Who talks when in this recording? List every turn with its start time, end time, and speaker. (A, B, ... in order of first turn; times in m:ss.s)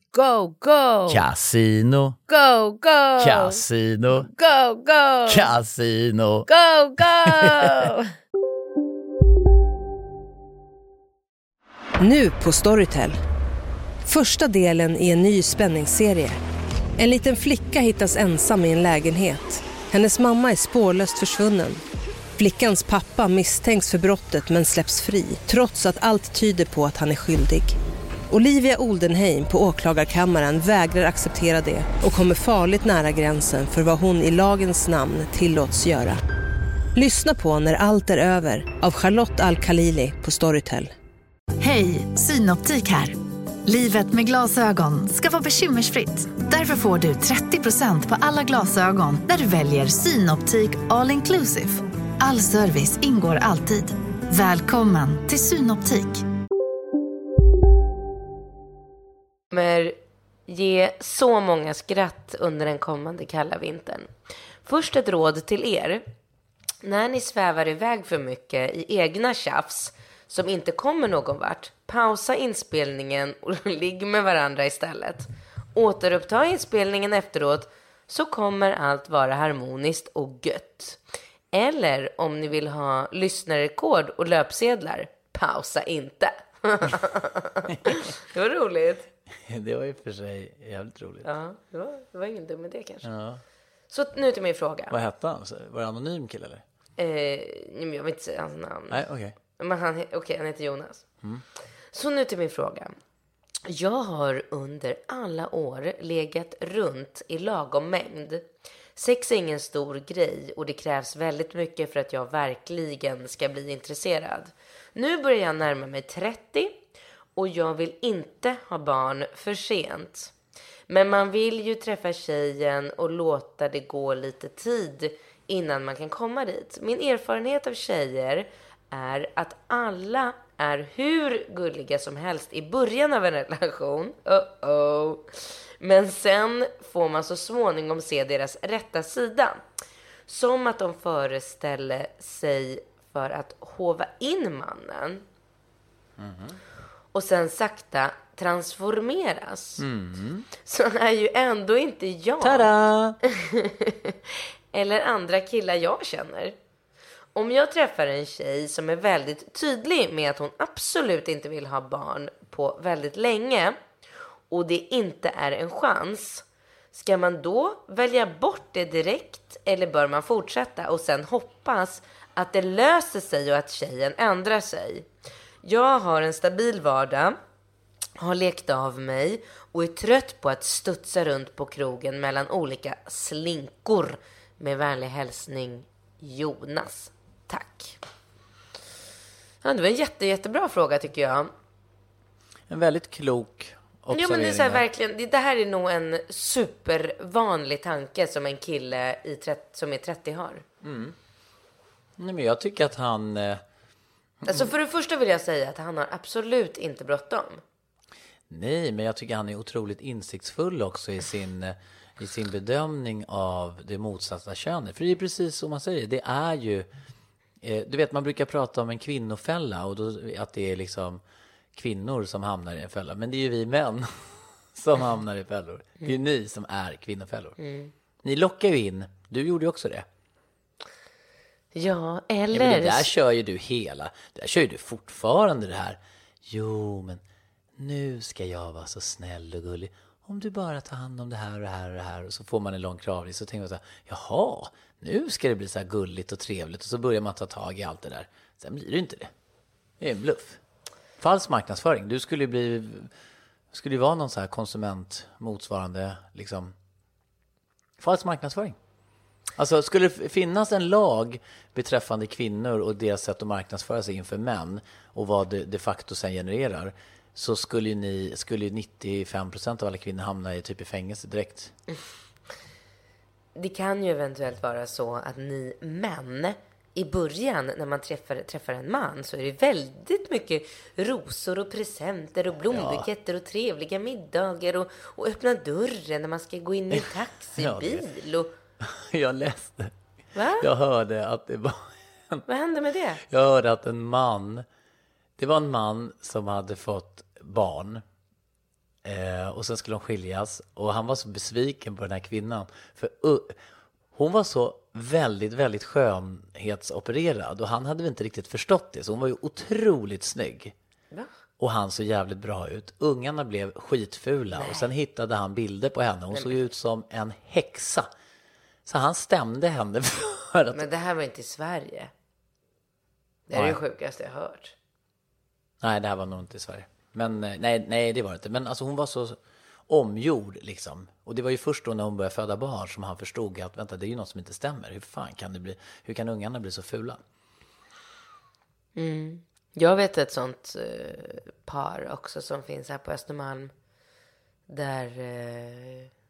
0:00.1-0:01.2 A
0:01.1-0:02.2 B
0:02.3-0:05.5 A
0:03.2-0:04.3 B
0:05.2-0:06.5 B
0:06.5-0:08.1 A
0:07.2-0:07.9 B
0:12.0-0:13.2 C
0:14.0-0:16.4 C
0:17.0-0:21.8 C
0:22.4-0:27.8 C
0:28.3-0:36.2 C
0:36.9-0:40.9 C
0:41.6-0:56.2 D
0:59.5-1:04.1 E
1:04.6-1:06.0 E
1:06.8-1:21.0 E
1:21.5-1:29.1 E
1:27.7-1:28.1 B
1:29.4-1:31.3 B
1:31.2-1:33.1 E
1:33.0-1:33.4 B
1:33.9-1:34.9 E
1:34.9-1:36.6 B
1:37.0-1:39.0 E
1:38.9-1:39.4 B
1:39.6-1:41.0 E
1:41.9-1:42.9 E
1:43.6-1:56.8 E
1:57.4-2:00.3 E
2:00.9-2:19.6 E
2:20.3-2:25.2 E
2:26.2-2:26.6 B
2:27.1-2:29.8 E
2:29.8-2:30.5 B
2:30.6-2:32.7 E
2:32.4-2:33.2 B
2:33.3-2:36.5 E
2:37.3-2:43.8 E
2:44.5-2:55.1 E
2:55.6-2:57.4 E
2:58.2-3:08.0 E
3:09.6-3:11.5 E
3:12.7-3:14.8 B
3:14.1-3:20.6 E
3:20.8-3:21.1 B
3:22.2-3:23.6 B
3:24.4-3:24.7 B
3:24.4-3:27.6 E
3:28.5-3:36.9 B
3:37.6-3:41.2 B
3:41.7-3:47.6 B
3:47.6-3:47.9 E
3:48.2-3:50.0 B
3:51.7-3:53.1 E
3:52.5-3:57.2 B
3:57.8-4:09.3 B
4:10.0-4:10.6 B
4:11.2-4:13.1 B
4:13.7-4:16.7 B
4:18.0-4:18.8 B
4:19.6-4:31.7 B
4:33.5-4:48.5 E
4:42.7-4:43.1 B
4:46.9-4:48.1 B
4:48.8-4:49.9 B
4:50.3-4:50.7 E
4:50.6-4:52.4 B
4:52.5-4:53.2 E
4:53.3-4:54.6 B
4:55.4-4:58.0 B
4:59.0-5:03.6 B
5:04.1-5:10.7 B
5:11.6-5:18.1 B
5:14.5-5:14.9 E
5:18.8-5:20.9 B
5:20.7-5:22.1 E
5:23.5-5:24.7 E
5:23.5-5:23.8 B
5:25.8-5:37.2 B
5:39.0-5:43.7 E
5:44.7-5:46.1 E